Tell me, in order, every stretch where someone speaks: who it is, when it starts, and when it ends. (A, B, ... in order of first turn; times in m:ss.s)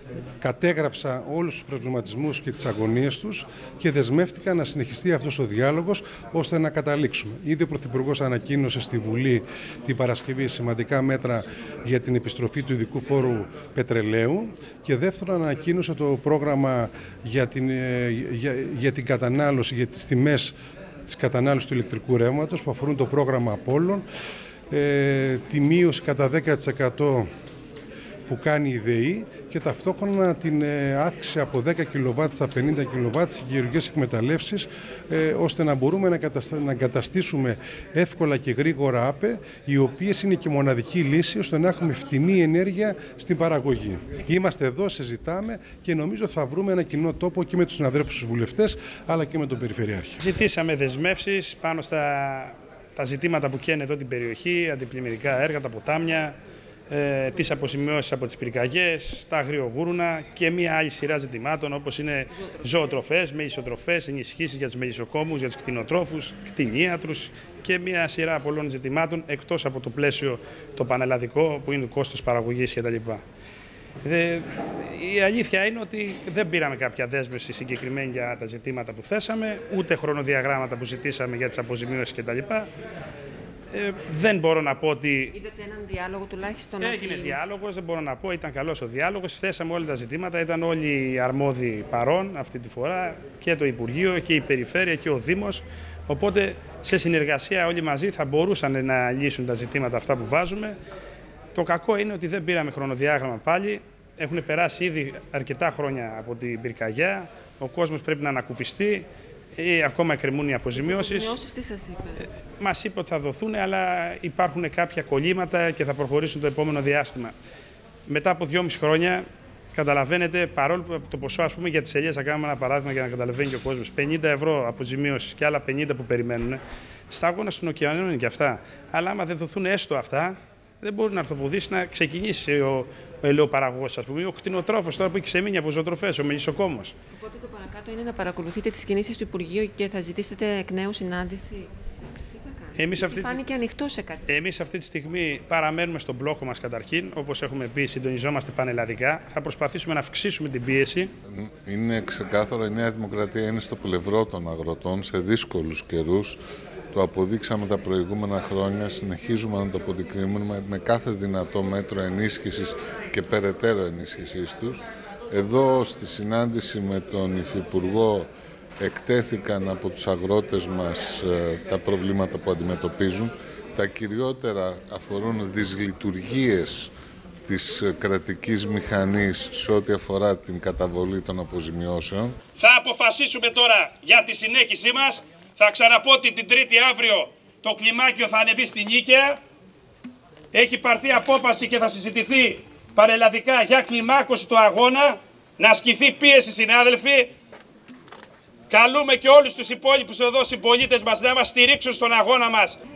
0:00.4-0:24.0 A
0:24.7-0:27.3 A
0:28.3-0:50.2 A
0:50.2-0:56.3 B
0:56.9-1:13.2 B
1:02.3-1:03.1 C
1:14.0-1:22.7 B
1:23.7-1:25.3 B
1:25.3-1:27.4 C
1:26.8-1:40.8 B
1:41.5-1:51.3 B
1:50.8-1:52.2 C
1:52.6-1:57.3 B
1:58.1-2:16.9 B
2:17.1-2:21.7 C
2:22.3-2:24.2 C
2:22.8-2:23.4 B
2:24.3-2:31.1 B
2:31.3-2:36.4 D
2:36.9-2:48.3 D
2:48.8-2:56.9 D
2:57.4-3:02.4 D
3:02.6-3:09.4 B
3:10.5-3:17.3 B
3:18.7-3:22.8 B